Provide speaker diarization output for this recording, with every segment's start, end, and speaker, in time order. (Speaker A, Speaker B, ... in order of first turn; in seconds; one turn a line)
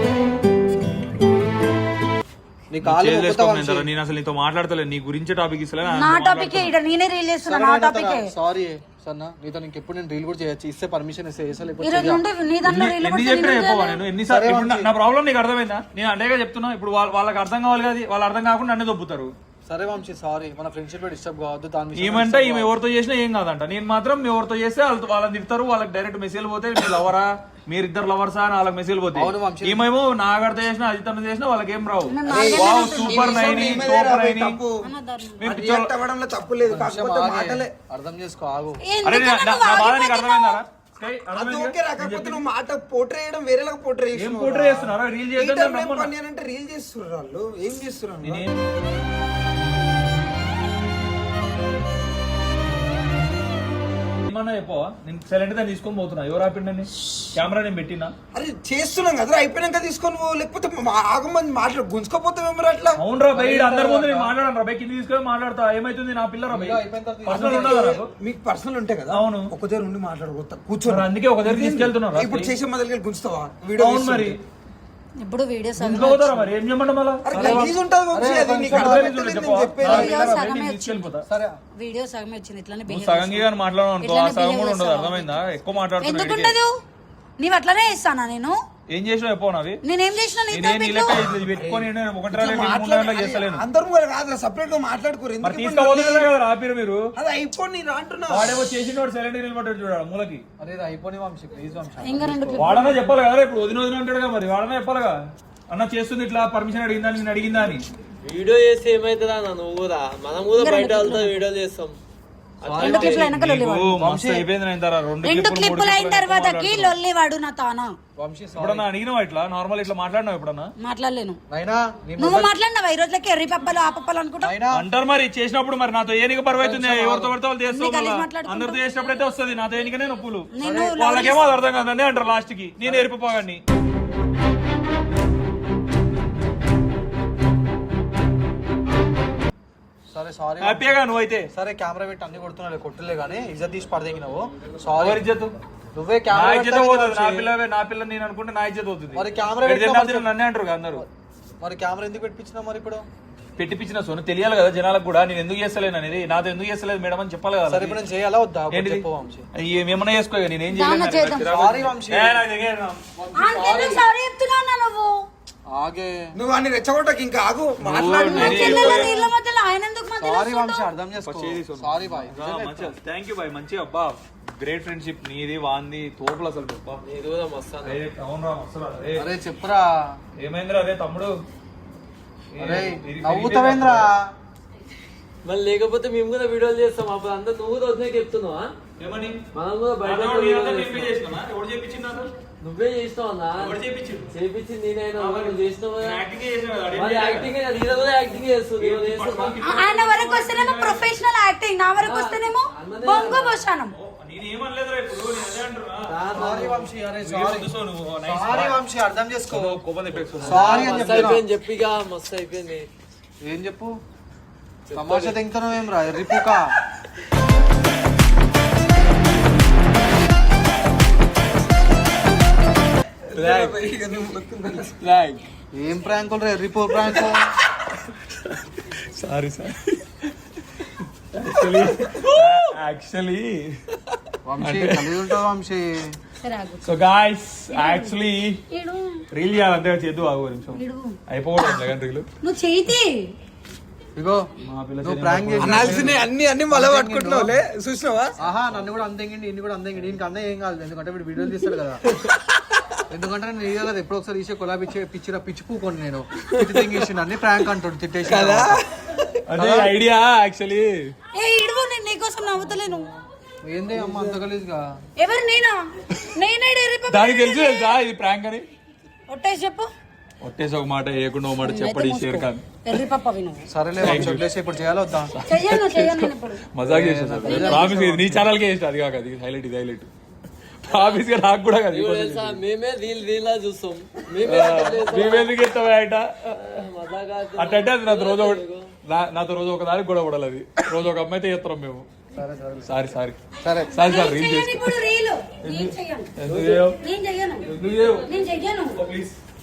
Speaker A: 2.7-3.9
Speaker B: 2.8-6.7
Speaker C: 5.8-8.3
Speaker A: 7.4-12.2
Speaker C: 11.8-14.0
Speaker B: 12.6-19.3
Speaker A: 14.3-14.9
Speaker A: 19.6-22.7
Speaker B: 21.9-34.6
Speaker A: 29.1-29.9
Speaker C: 32.0-33.7
Speaker D: 32.3-34.7
Speaker C: 34.8-35.4
Speaker D: 35.4-37.7
Speaker B: 35.4-35.9
Speaker A: 36.7-38.8
Speaker C: 38.8-40.6
Speaker B: 39.0-42.5
Speaker D: 41.3-48.5
Speaker B: 44.1-46.1
Speaker B: 48.2-48.5
Speaker B: 54.3-58.1
Speaker D: 58.3-63.0
Speaker B: 63.0-68.1
Speaker A: 63.3-64.3
Speaker A: 66.5-67.9
Speaker D: 67.3-74.4
Speaker B: 69.1-69.5
Speaker B: 70.9-72.4
Speaker B: 73.8-74.4
Speaker C: 75.2-76.4
Speaker B: 75.8-77.7
Speaker D: 77.2-80.4
Speaker A: 77.3-79.2
Speaker B: 78.7-81.2
Speaker C: 79.8-81.1
Speaker A: 81.2-81.6
Speaker C: 81.8-83.5
Speaker B: 82.9-86.5
Speaker C: 84.0-85.4
Speaker C: 86.0-86.7
Speaker C: 87.4-88.5
Speaker B: 88.9-89.8
Speaker C: 89.8-91.2
Speaker B: 90.5-93.6
Speaker D: 91.1-96.3
Speaker B: 95.4-97.0
Speaker D: 97.2-98.6
Speaker B: 98.3-100.4
Speaker A: 100.6-102.9
Speaker C: 102.0-103.0
Speaker B: 102.6-105.2
Speaker B: 105.7-107.8
Speaker E: 108.2-112.0
Speaker C: 110.5-111.5
Speaker E: 112.6-113.3
Speaker A: 112.6-113.3
Speaker B: 112.8-117.0
Speaker C: 112.9-114.0
Speaker A: 114.0-114.4
Speaker C: 115.2-117.9
Speaker A: 118.2-118.9
Speaker B: 118.6-120.7
Speaker C: 120.8-121.4
Speaker A: 121.5-122.5
Speaker C: 122.2-124.6
Speaker A: 124.4-124.8
Speaker B: 124.7-133.6
Speaker A: 126.5-127.3
Speaker C: 127.7-128.8
Speaker C: 130.5-131.5
Speaker A: 130.6-130.9
Speaker A: 132.8-133.1
Speaker A: 140.1-140.9
Speaker B: 140.6-141.5
Speaker A: 141.5-145.2
Speaker B: 145.0-145.6
Speaker A: 145.9-147.5
Speaker B: 146.3-151.0
Speaker A: 149.1-150.3
Speaker A: 151.6-153.1
Speaker B: 153.6-158.0
Speaker A: 157.7-159.4
Speaker B: 158.7-163.0
Speaker C: 160.7-161.6
Speaker A: 161.5-162.4
Speaker A: 163.2-164.0
Speaker C: 163.3-165.1
Speaker A: 165.7-166.3
Speaker D: 166.3-169.1
Speaker E: 167.8-168.6
Speaker C: 168.1-170.9
Speaker A: 168.2-168.7
Speaker B: 168.2-169.3
Speaker A: 170.2-172.9
Speaker B: 171.2-177.0
Speaker E: 177.0-178.0
Speaker B: 177.8-179.2
Speaker A: 179.2-179.8
Speaker B: 180.3-181.3
Speaker B: 182.5-184.1
Speaker A: 182.6-184.2
Speaker E: 185.4-188.7
Speaker B: 189.0-189.4
Speaker E: 189.5-191.1
Speaker B: 190.0-192.3
Speaker E: 192.6-193.8
Speaker B: 193.6-194.3
Speaker E: 194.3-196.2
Speaker B: 195.2-197.5
Speaker E: 196.9-199.6
Speaker B: 198.8-201.2
Speaker C: 199.6-203.9
Speaker E: 202.0-203.6
Speaker B: 203.9-206.1
Speaker E: 206.1-206.9
Speaker A: 206.3-209.8
Speaker B: 207.2-208.8
Speaker B: 209.5-211.4
Speaker E: 210.3-212.9
Speaker A: 210.4-211.4
Speaker A: 213.4-214.0
Speaker E: 214.8-215.4
Speaker A: 214.9-216.7
Speaker D: 223.3-225.0
Speaker E: 223.3-223.7
Speaker E: 225.0-225.4
Speaker A: 225.7-227.5
Speaker B: 229.1-230.0
Speaker B: 231.3-233.7
Speaker A: 234.4-236.1
Speaker B: 234.6-235.3
Speaker C: 236.4-236.9
Speaker B: 236.8-238.6
Speaker C: 237.7-238.2
Speaker C: 238.7-239.2
Speaker B: 239.3-242.2
Speaker C: 240.7-241.2
Speaker C: 242.4-243.3
Speaker A: 244.2-244.5
Speaker B: 244.6-246.2
Speaker A: 245.0-247.6
Speaker D: 245.6-248.3
Speaker A: 248.4-252.0
Speaker A: 253.1-258.8
Speaker D: 258.2-259.9
Speaker B: 259.5-261.1
Speaker C: 261.4-263.1
Speaker A: 263.7-264.8
Speaker D: 264.0-264.3
Speaker C: 265.2-268.0
Speaker B: 267.1-268.6
Speaker C: 269.3-269.9
Speaker B: 270.4-272.6
Speaker C: 271.6-273.7
Speaker A: 273.7-275.3
Speaker B: 274.0-274.4
Speaker B: 275.3-280.1
Speaker C: 275.4-276.6
Speaker A: 276.8-278.4
Speaker C: 277.4-278.0
Speaker B: 280.8-282.6
Speaker E: 280.9-281.2
Speaker E: 281.9-285.6
Speaker B: 284.4-286.9
Speaker E: 286.5-288.9
Speaker B: 287.6-292.1
Speaker A: 292.3-292.9
Speaker B: 292.9-293.4
Speaker A: 293.6-293.9
Speaker C: 293.9-296.4
Speaker B: 293.9-295.0
Speaker B: 295.6-297.0
Speaker E: 296.4-296.8
Speaker C: 296.9-299.0
Speaker B: 297.6-298.3
Speaker B: 298.9-299.4